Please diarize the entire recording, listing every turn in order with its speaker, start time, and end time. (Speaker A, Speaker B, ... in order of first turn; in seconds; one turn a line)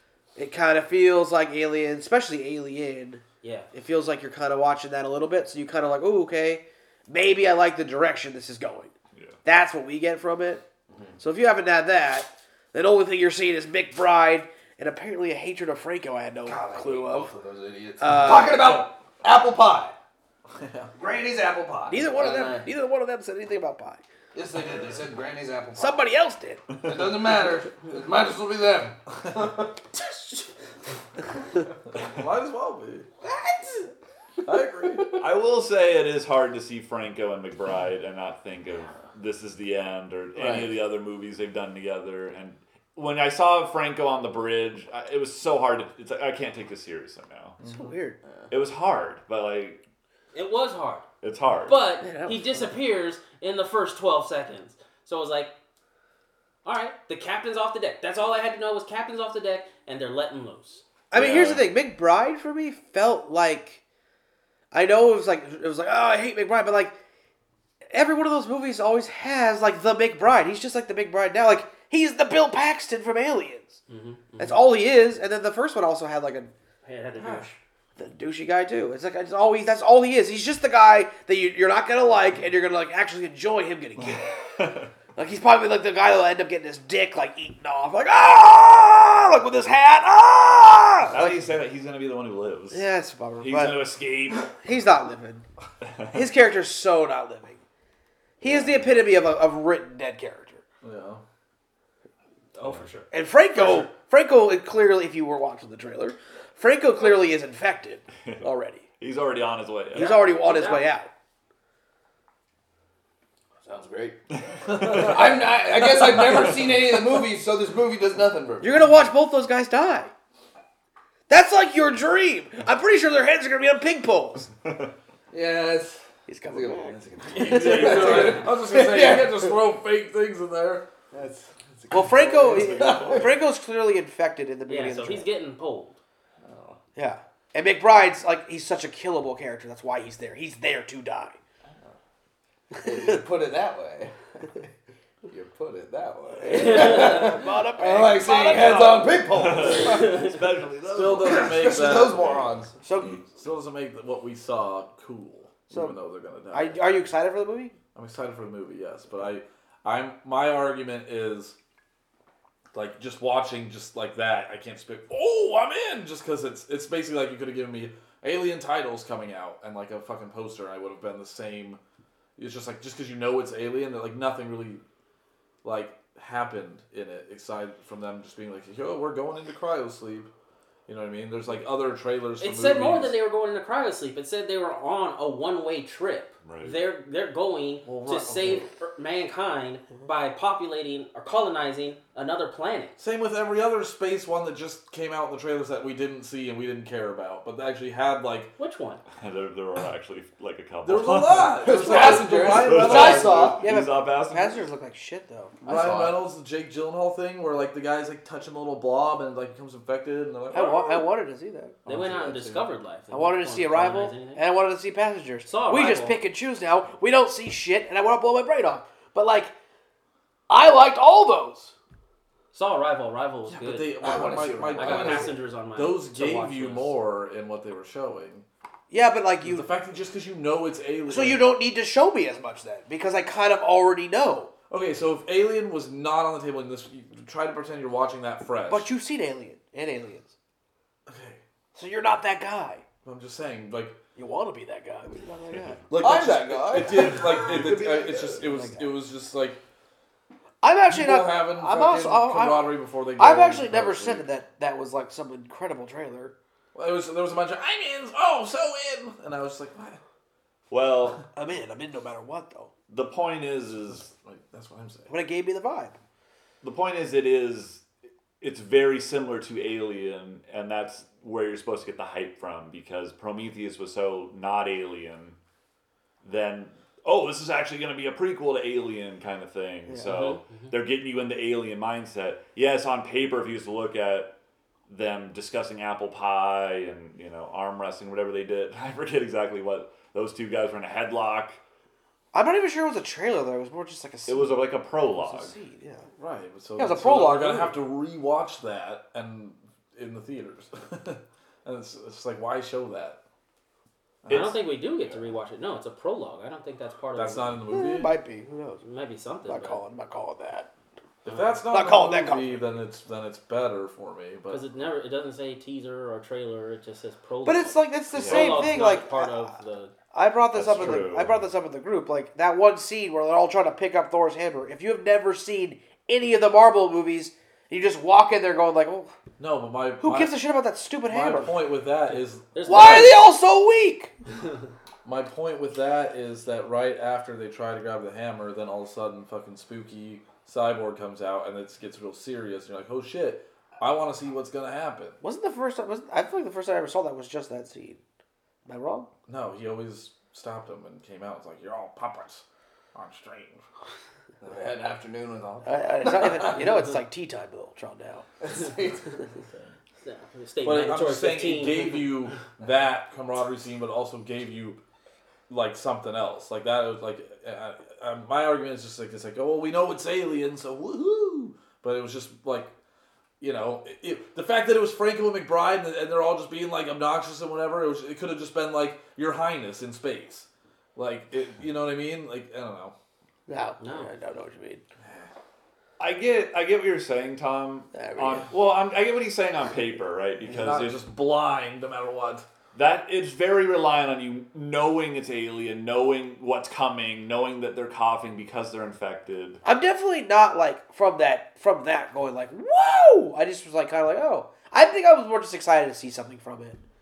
Speaker A: 0.4-8.9
Speaker B: 3.4-3.7
Speaker A: 9.4-10.6
Speaker A: 11.2-17.3
Speaker C: 16.4-19.9
Speaker A: 18.0-18.8
Speaker D: 20.6-20.9
Speaker C: 20.9-22.7
Speaker A: 21.9-24.0
Speaker C: 24.3-26.0
Speaker A: 25.8-26.6
Speaker C: 26.8-29.7
Speaker D: 31.9-33.1
Speaker B: 33.2-33.7
Speaker D: 34.5-35.1
Speaker E: 35.2-47.6
Speaker C: 40.4-40.8
Speaker A: 47.6-48.2
Speaker E: 48.5-49.8
Speaker B: 50.3-51.1
Speaker E: 51.2-51.8
Speaker B: 51.7-55.5
Speaker A: 52.0-52.7
Speaker B: 56.6-60.9
Speaker A: 61.1-63.8
Speaker E: 61.1-61.7
Speaker A: 64.7-67.0
Speaker A: 67.9-73.8
Speaker B: 73.9-74.7
Speaker A: 74.4-76.5
Speaker B: 76.8-77.6
Speaker D: 77.2-77.5
Speaker A: 78.0-84.4
Speaker E: 84.6-84.9
Speaker A: 85.2-91.4
Speaker E: 91.1-92.9
Speaker A: 92.7-95.5
Speaker E: 93.4-94.5
Speaker A: 96.1-97.6
Speaker A: 98.4-100.6
Speaker E: 98.4-99.0
Speaker D: 100.8-101.2
Speaker B: 102.5-103.1
Speaker A: 103.1-108.8
Speaker E: 109.0-110.2
Speaker A: 109.9-111.1
Speaker B: 110.0-110.9
Speaker C: 113.6-118.8
Speaker E: 114.5-115.2
Speaker A: 118.6-120.1
Speaker A: 121.3-124.5
Speaker C: 125.3-129.6
Speaker A: 126.3-128.3
Speaker D: 127.2-130.9
Speaker C: 131.1-133.3
Speaker A: 131.9-135.3
Speaker E: 132.7-133.2
Speaker B: 134.7-136.0
Speaker C: 136.4-136.8
Speaker A: 137.0-141.4
Speaker C: 142.8-144.2
Speaker C: 145.3-150.4
Speaker A: 146.4-149.2
Speaker B: 146.5-147.3
Speaker E: 149.2-151.7
Speaker D: 150.9-152.5
Speaker C: 151.2-152.8
Speaker A: 152.8-153.2
Speaker D: 153.2-156.8
Speaker A: 155.7-156.0
Speaker A: 156.5-157.8
Speaker D: 157.9-161.6
Speaker D: 162.7-171.8
Speaker D: 172.4-174.8
Speaker D: 175.6-180.3
Speaker D: 180.9-183.2
Speaker B: 182.4-193.0
Speaker E: 186.4-186.8
Speaker D: 187.8-188.7
Speaker D: 193.0-198.5
Speaker B: 198.6-199.0
Speaker E: 199.2-204.7
Speaker D: 200.8-203.6
Speaker C: 201.6-203.6
Speaker A: 202.8-205.6
Speaker C: 205.6-206.2
Speaker D: 205.6-211.1
Speaker A: 210.5-211.8
Speaker B: 211.9-214.4
Speaker C: 211.9-212.5
Speaker D: 212.0-212.6
Speaker A: 213.1-219.5
Speaker B: 215.5-216.2
Speaker A: 220.5-221.7
Speaker B: 222.5-226.9
Speaker D: 223.5-228.5
Speaker C: 224.0-225.4
Speaker A: 228.9-229.7
Speaker D: 229.4-231.5
Speaker A: 231.1-234.5
Speaker D: 234.7-238.9
Speaker A: 238.7-240.3
Speaker D: 241.1-241.4
Speaker A: 241.8-242.8
Speaker D: 243.1-244.0
Speaker A: 244.2-245.9
Speaker D: 245.9-249.6
Speaker C: 246.0-248.4
Speaker A: 247.8-248.9
Speaker A: 250.6-256.3
Speaker D: 250.9-254.3
Speaker D: 256.7-260.0
Speaker E: 260.7-261.2
Speaker A: 261.3-262.7
Speaker E: 262.9-264.1
Speaker D: 263.9-265.1
Speaker A: 265.1-266.0
Speaker E: 266.6-267.8
Speaker E: 268.4-275.4
Speaker E: 276.2-284.3
Speaker B: 280.1-280.7
Speaker E: 284.9-291.6
Speaker A: 292.3-296.1
Speaker E: 294.3-295.5
Speaker D: 296.2-303.2
Speaker A: 296.8-297.8
Speaker D: 304.2-304.6
Speaker E: 304.3-304.6
Speaker B: 304.3-307.6
Speaker D: 307.1-308.2
Speaker A: 307.7-308.8
Speaker B: 308.8-309.8
Speaker A: 309.5-310.7
Speaker D: 311.2-314.6
Speaker A: 311.7-312.6
Speaker B: 314.5-319.9
Speaker A: 317.4-319.5
Speaker E: 318.1-318.7
Speaker A: 320.1-329.1
Speaker E: 320.5-321.5
Speaker D: 329.4-330.4
Speaker A: 330.0-331.6
Speaker D: 331.1-333.1
Speaker B: 332.6-333.2
Speaker A: 332.7-334.1
Speaker D: 335.1-345.2
Speaker A: 345.2-348.0
Speaker A: 348.7-349.1
Speaker D: 349.3-353.6
Speaker C: 354.4-356.7
Speaker A: 355.6-358.3
Speaker C: 358.4-359.2
Speaker B: 360.0-362.2
Speaker D: 360.6-364.8
Speaker D: 365.5-372.7
Speaker D: 373.4-382.9
Speaker A: 383.5-384.8
Speaker B: 383.8-384.1
Speaker D: 385.0-385.3
Speaker E: 386.0-391.0
Speaker A: 387.9-388.5
Speaker D: 390.5-392.5
Speaker E: 392.7-399.6
Speaker A: 399.6-406.8